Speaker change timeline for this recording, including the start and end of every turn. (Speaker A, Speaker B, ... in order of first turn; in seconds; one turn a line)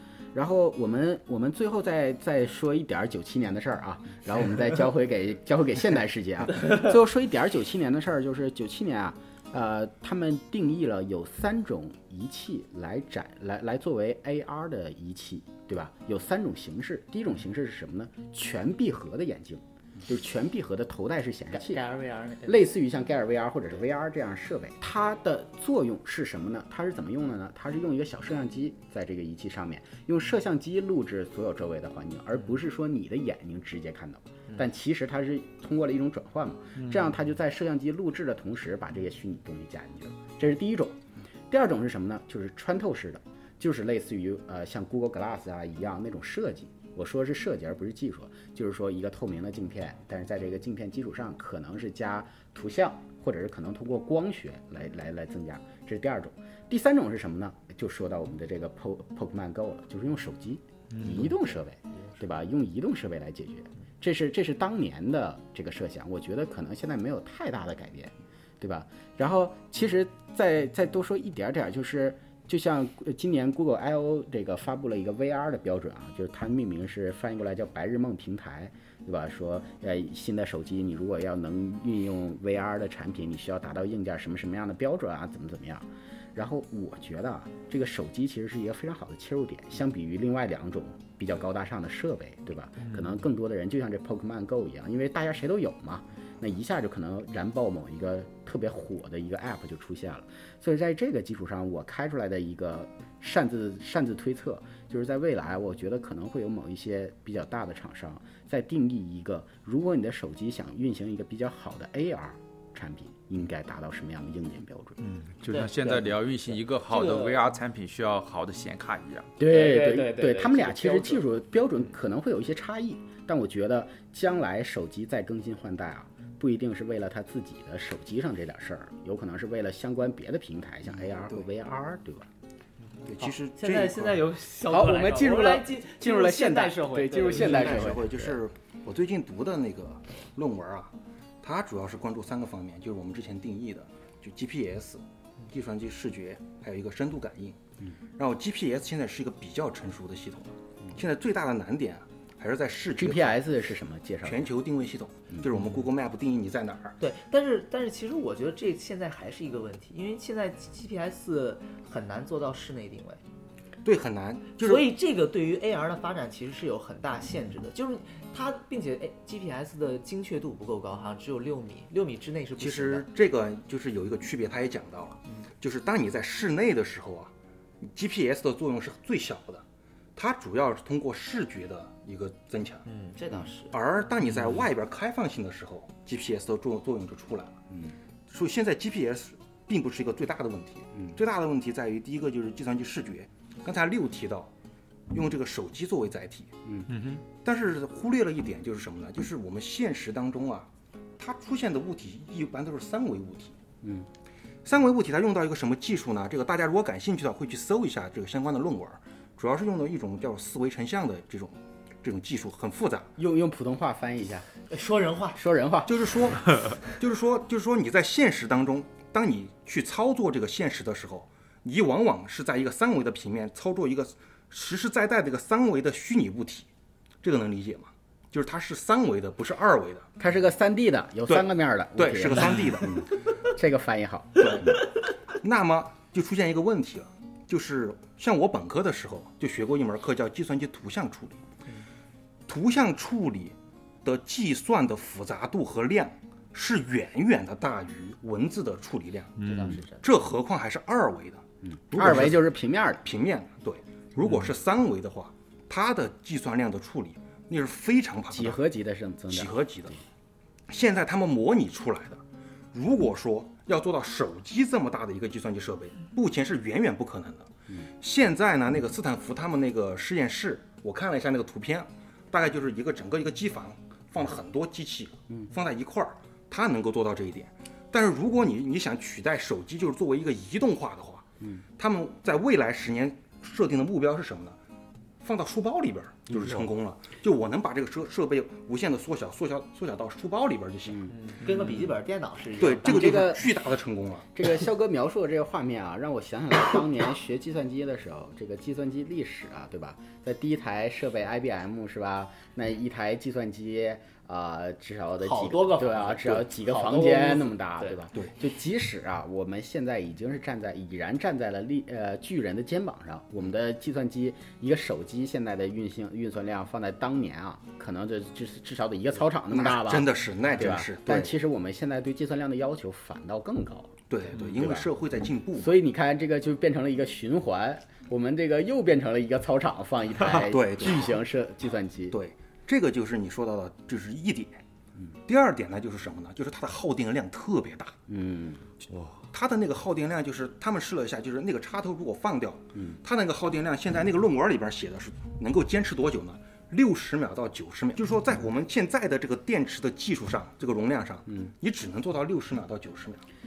Speaker A: 0.3-21.8
Speaker B: 21.5-22.7
Speaker A: 22.4-41.0
Speaker C: 36.8-37.1
Speaker A: 41.5-115.0
Speaker C: 60.9-61.3
Speaker C: 92.8-93.1
Speaker C: 115.0-119.3
Speaker B: 115.5-117.4
Speaker A: 119.4-132.3
Speaker B: 119.4-121.2
Speaker D: 131.0-131.4
Speaker D: 133.1-134.2
Speaker B: 133.2-138.0
Speaker A: 134.7-138.4
Speaker D: 137.3-147.6
Speaker D: 148.2-153.6
Speaker A: 152.9-154.5
Speaker D: 154.2-157.0
Speaker B: 157.0-163.2
Speaker D: 163.8-164.9
Speaker B: 164.6-173.1
Speaker D: 172.6-179.6
Speaker D: 180.2-182.8
Speaker B: 182.8-183.7
Speaker D: 183.7-187.6
Speaker A: 187.7-187.9
Speaker D: 188.3-194.5
Speaker D: 195.1-196.5
Speaker C: 196.9-197.2
Speaker D: 197.3-203.6
Speaker D: 204.6-213.1
Speaker A: 213.2-214.5
Speaker B: 214.7-215.4
Speaker A: 215.3-215.9
Speaker D: 215.8-226.7
Speaker D: 227.2-230.1
Speaker A: 230.2-234.8
Speaker D: 231.3-233.1
Speaker D: 234.4-234.8
Speaker D: 235.4-241.4
Speaker D: 242.5-249.3
Speaker C: 249.4-249.7
Speaker B: 249.4-250.0
Speaker D: 250.0-252.4
Speaker A: 251.6-253.0
Speaker D: 253.0-258.6
Speaker A: 258.3-259.9
Speaker D: 259.3-260.0
Speaker D: 260.7-267.5
Speaker D: 268.0-281.2
Speaker D: 281.8-284.6
Speaker D: 285.2-291.1
Speaker A: 286.3-286.6
Speaker B: 291.1-293.3
Speaker D: 292.6-294.3
Speaker A: 292.8-293.5
Speaker A: 294.3-324.9
Speaker B: 305.2-308.0
Speaker D: 319.5-321.4
Speaker D: 324.1-325.7
Speaker A: 325.6-332.2
Speaker D: 330.2-331.2
Speaker D: 332.1-334.6
Speaker D: 335.2-337.9
Speaker A: 338.1-338.6
Speaker D: 339.3-353.2